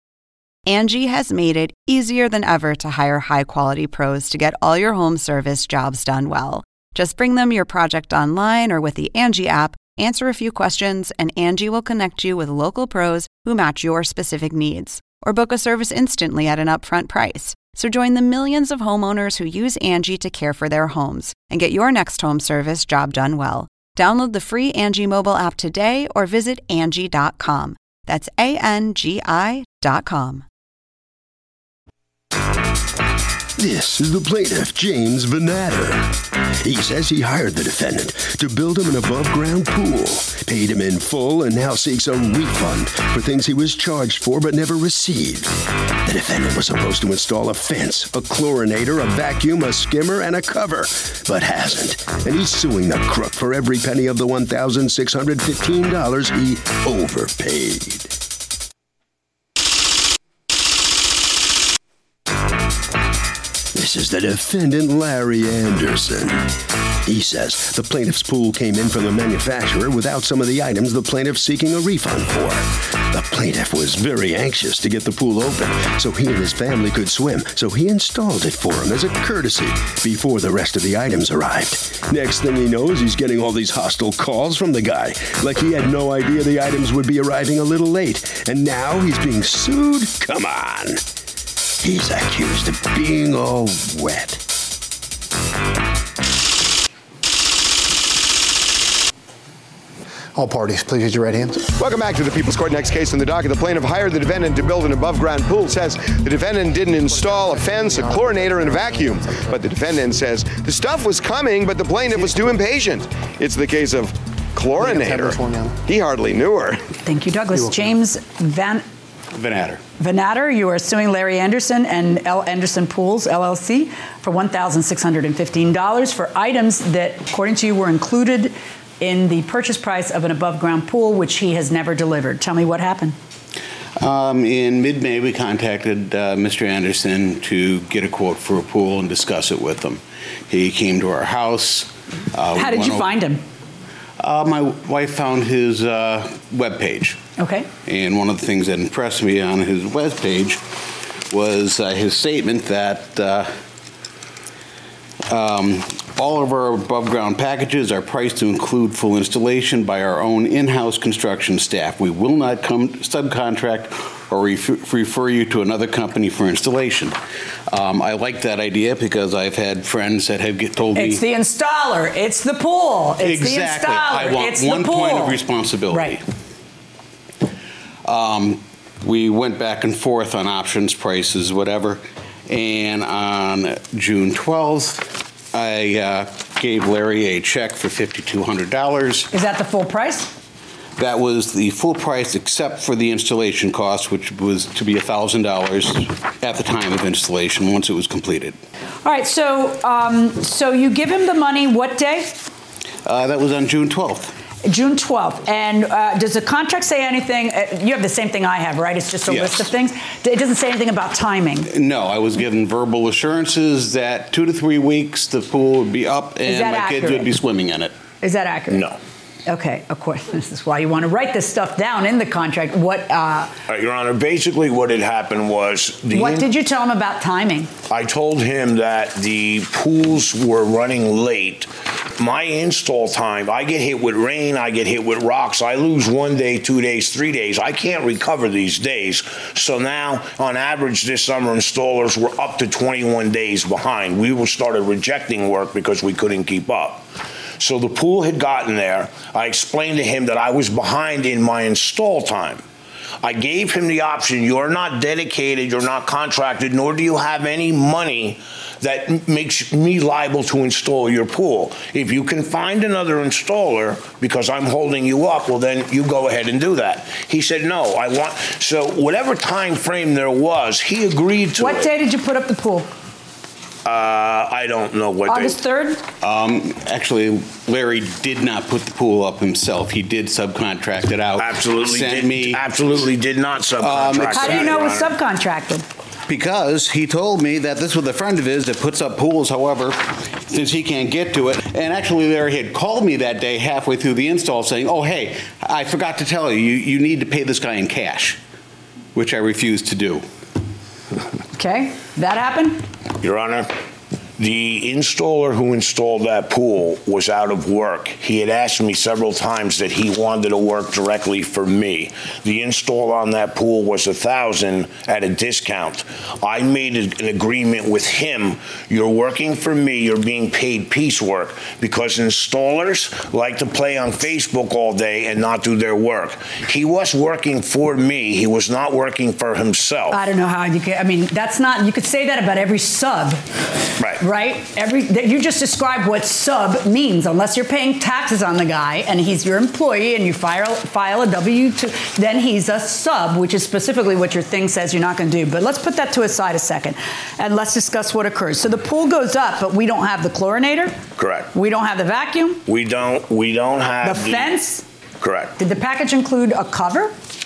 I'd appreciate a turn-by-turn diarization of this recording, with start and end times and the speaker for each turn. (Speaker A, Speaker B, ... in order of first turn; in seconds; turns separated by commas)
Speaker A: 0.7-30.4, Speaker B: 33.6-58.1, Speaker B: 63.7-91.0, Speaker B: 91.8-94.4, Speaker C: 100.3-101.7, Speaker D: 101.8-116.8, Speaker C: 107.4-108.0, Speaker C: 114.8-115.7, Speaker E: 117.0-118.8, Speaker F: 119.3-119.8, Speaker E: 120.0-133.2, Speaker F: 134.0-143.1, Speaker E: 142.5-143.4, Speaker F: 144.2-147.2, Speaker E: 147.4-147.7, Speaker F: 147.8-150.6, Speaker F: 151.3-153.5, Speaker F: 155.3-167.2, Speaker F: 167.7-171.2, Speaker E: 170.9-176.2, Speaker F: 173.2-176.2, Speaker F: 178.0-189.3, Speaker E: 189.3-190.3, Speaker F: 191.0-198.6, Speaker E: 199.0-202.4, Speaker F: 203.0-204.3, Speaker E: 204.7-211.7, Speaker F: 209.3-209.7, Speaker F: 211.7-217.9, Speaker E: 216.4-217.3, Speaker E: 218.2-218.9, Speaker G: 218.7-219.0, Speaker E: 219.4-223.5, Speaker G: 223.7-226.4, Speaker E: 226.1-227.7, Speaker G: 227.9-247.1, Speaker G: 247.6-252.6, Speaker G: 253.2-271.9, Speaker E: 271.6-272.9, Speaker G: 273.8-275.6, Speaker E: 275.3-276.0, Speaker F: 276.2-282.9, Speaker G: 281.4-285.1, Speaker F: 283.8-284.8, Speaker E: 284.3-285.8, Speaker F: 286.3-298.4, Speaker F: 299.1-300.2, Speaker E: 301.5-302.8, Speaker G: 303.2-303.7, Speaker G: 304.4-330.2, Speaker E: 330.1-333.4, Speaker E: 334.2-351.0, Speaker G: 351.2-351.5, Speaker E: 351.5-352.6, Speaker G: 352.7-354.5, Speaker E: 354.0-354.8, Speaker G: 355.2-355.5, Speaker E: 355.6-357.1